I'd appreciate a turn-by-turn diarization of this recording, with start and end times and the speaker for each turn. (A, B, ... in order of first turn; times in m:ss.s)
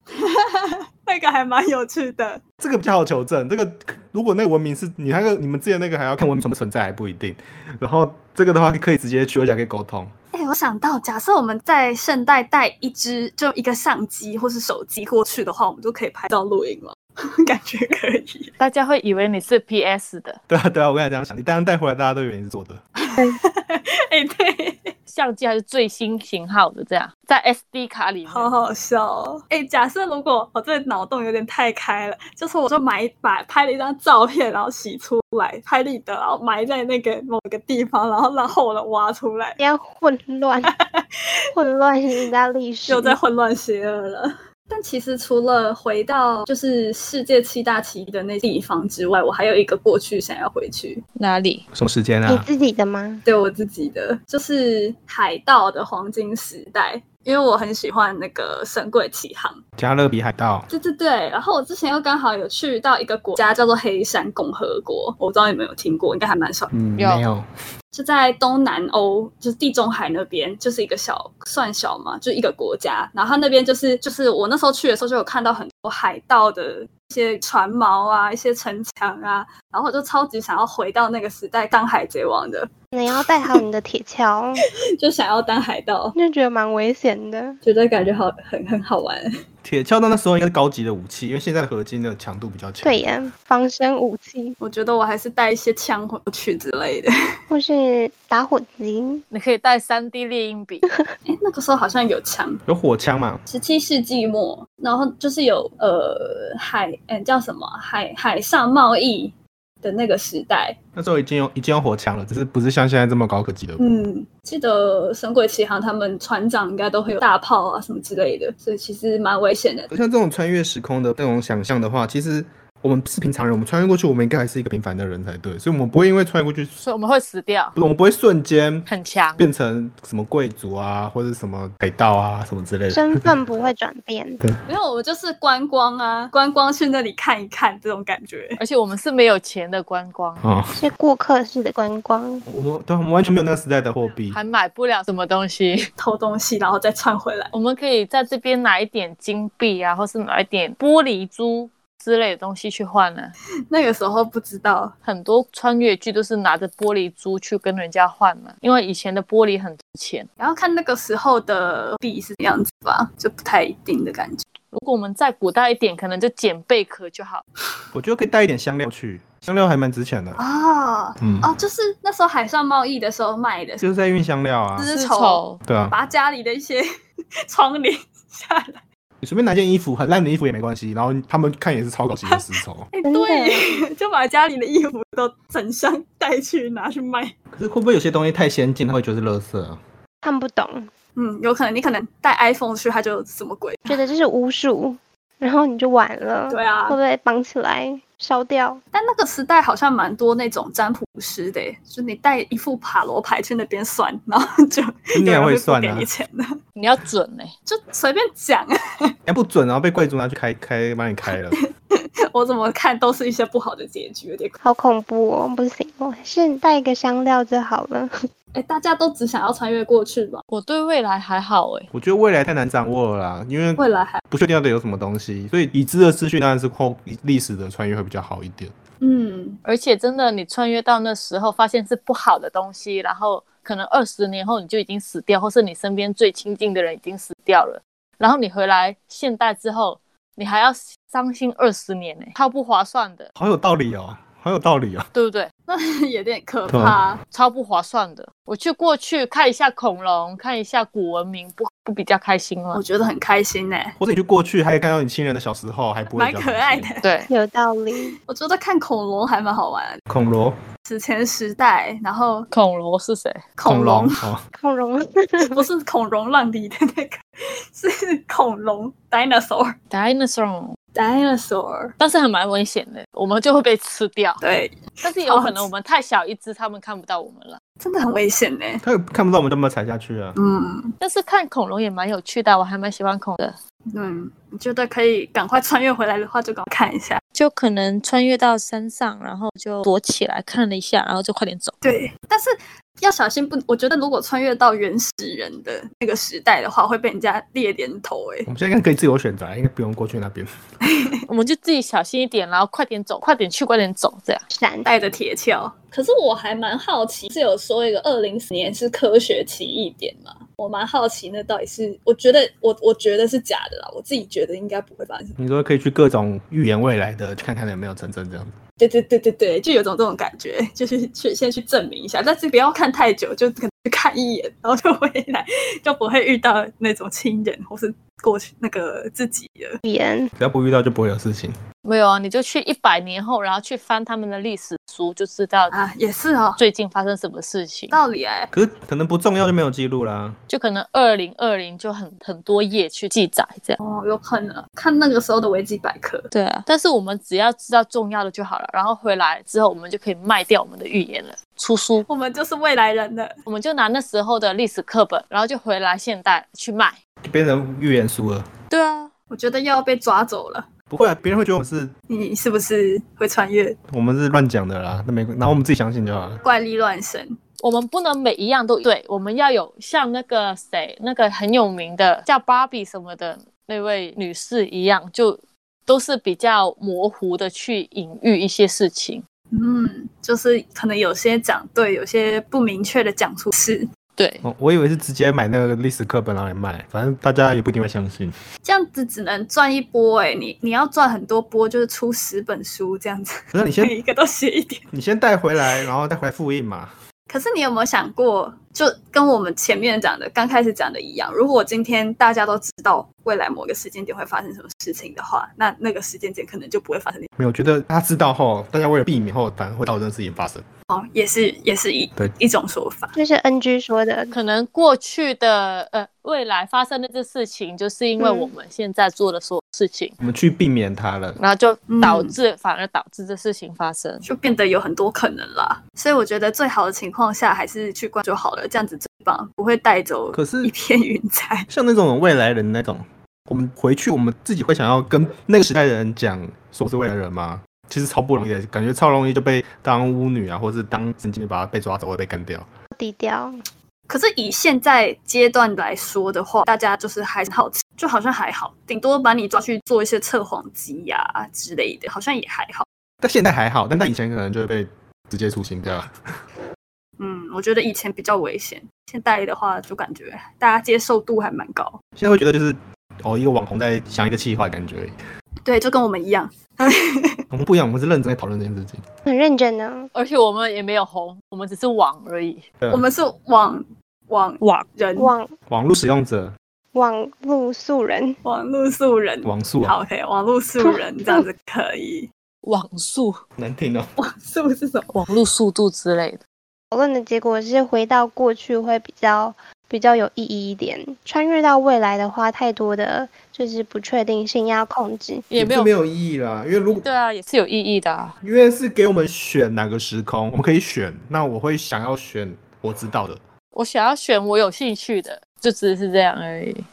0:00.1-0:02.4 A
0:02.6-0:10.1 B
0:10.3-0:18.5 A
0:18.6-0:20.4 C
0:20.5-0:22.8 B
0:23.0-0:24.9 A
0:25.1-0:28.5 C
0:28.3-0:39.6 A
0:39.6-0:40.7 D
0:40.7-0:41.1 A
0:41.5-0:43.2 D
0:42.9-0:51.0 A
0:51.2-0:51.6 C
0:51.7-0:52.4 B
0:52.2-0:53.2 D
0:53.2-0:59.6 A
0:59.8-1:00.7 B
1:00.7-1:06.7 A
1:06.7-1:07.4 B
1:07.0-1:07.2 C
1:07.9-1:22.7 A
1:22.9-1:24.6 D
1:25.0-1:26.2 A
1:26.1-1:27.6 D
1:27.6-1:29.3 A
1:29.6-1:33.1 B
1:32.8-1:34.6 D
1:34.6-1:37.1 A
1:37.5-1:39.2 D
1:39.3-1:40.9 C
1:41.2-1:42.6 A
1:42.6-1:43.4 B
1:43.5-1:50.8 A
1:50.9-1:53.8 B
1:53.8-1:59.9 A
1:59.9-2:06.8 B
2:06.8-2:07.8 C
2:07.8-2:13.2 B
2:08.9-2:09.5 C
2:12.9-2:14.4 D
2:14.7-2:18.6 A
2:18.6-2:20.4 C
2:20.4-2:20.8 B
2:20.8-2:22.4 D
2:22.4-2:24.4 B
2:24.3-2:25.9 C
2:26.0-2:27.5 A
2:27.5-2:33.3 C
2:33.7-2:34.9 A
2:35.0-2:40.3 C
2:40.4-2:44.4 A
2:44.7-2:47.4 C
2:47.9-2:50.4 B
2:50.4-2:53.9 A
2:51.2-2:51.5 B
2:53.8-2:54.9 B
2:54.8-2:55.6 C
2:54.8-2:56.9 A
2:55.6-2:55.9 B
2:57.5-2:58.8 A
2:59.2-3:02.9 B
3:02.3-3:07.3 A
3:03.1-3:03.6 D
3:07.5-3:09.8 B
3:10.2-3:10.9 D
3:11.2-3:14.0 A
3:13.9-3:18.8 D
3:16.5-3:17.0 A
3:18.9-3:26.5 A
3:25.1-3:26.1 B
3:26.8-3:27.5 C
3:27.7-3:29.1 A
3:29.2-3:31.6 B
3:32.3-3:34.6 A
3:34.6-3:38.1 D
3:38.5-3:40.4 A
3:40.5-3:41.9 C
3:41.9-3:48.7 B
3:43.8-3:44.2 A
3:49.0-3:49.6 A
3:49.6-4:03.3 C
4:03.4-4:05.1 B
4:05.1-4:05.5 C
4:05.7-4:07.2 A
4:06.7-4:07.0 B
4:07.3-4:12.8 C
4:12.7-4:14.0 A
4:14.0-4:16.9 B
4:16.1-4:17.1 A
4:17.0-4:17.3 C
4:17.3-4:18.1 D
4:18.3-4:20.0 A
4:20.1-4:20.6 B
4:20.8-4:22.5 A
4:22.5-4:23.4 C
4:23.6-4:24.1 A
4:23.6-4:24.4 B
4:24.5-4:25.6 D
4:25.4-4:27.2 A
4:27.7-4:29.8 A
4:29.9-4:30.8 C
4:30.9-4:31.9 A
4:32.0-4:34.4 C
4:34.4-4:35.7 A
4:35.0-4:37.6 C
4:37.8-4:38.8 A
4:38.8-4:40.4 B
4:40.4-4:40.9 A
4:41.0-4:43.6 C
4:43.9-4:47.2 A
4:47.3-4:51.7 C
4:51.8-4:58.5 A
4:58.4-5:00.5 B
5:01.3-5:04.4 C
5:04.5-5:04.9 D
5:04.8-5:15.4 A
5:15.4-5:18.6 B
5:18.8-5:29.8 A
5:29.8-5:30.3 D
5:30.4-5:31.5 B
5:31.8-5:35.7 C
5:35.7-5:36.6 A
5:36.6-5:38.0 C
5:37.9-5:38.5 A
5:38.5-5:40.4 B
5:40.5-5:43.8 C
5:43.8-5:46.3 A
5:46.3-5:52.0 C
5:52.1-5:53.3 A
5:53.4-5:57.0 C
5:57.2-5:58.5 B
5:58.7-5:59.1 C
5:59.3-6:00.7 A
6:00.9-6:01.9 B
6:02.1-6:03.8 A
6:03.9-6:06.4 B
6:06.4-6:07.4 A
6:07.6-6:19.2 C
6:19.5-6:23.9 A
6:24.2-6:24.4 C
6:24.4-6:28.3 B
6:28.6-6:34.8 A
6:33.5-6:33.9 B
6:34.9-6:36.9 B
6:37.3-6:47.3 A
6:47.4-6:50.6 B
6:50.9-6:53.1 A
6:53.1-6:54.3 D
6:54.3-7:00.1 C
6:58.2-6:58.5 D
7:00.2-7:01.4 B
7:01.4-7:04.2 C
7:01.9-7:02.3 A
7:04.2-7:11.7 A
7:10.3-7:10.7 B
7:11.7-7:22.7 B
7:22.9-7:23.6 D
7:24.1-7:32.8 A
7:33.2-7:36.1 B
7:37.2-7:42.0 A
7:42.2-7:45.1 B
7:45.6-7:47.4 A
7:47.5-7:49.0 B
7:49.2-7:50.1 D
7:50.1-7:52.6 C
7:52.9-7:55.3 A
7:55.2-7:55.5 D
7:55.7-7:56.5 B
7:56.9-7:58.4 D
7:58.4-8:02.3 A
7:59.4-7:59.9 B
8:00.9-8:01.4 D
8:02.6-8:03.4 C
8:03.6-8:04.1 B
8:04.2-8:05.1 A
8:05.1-8:06.4 C
8:06.9-8:15.5 D
8:15.5-8:15.9 C
8:15.5-8:17.0 B
8:17.0-8:18.3 C
8:18.4-8:23.4 B
8:23.7-8:26.8 C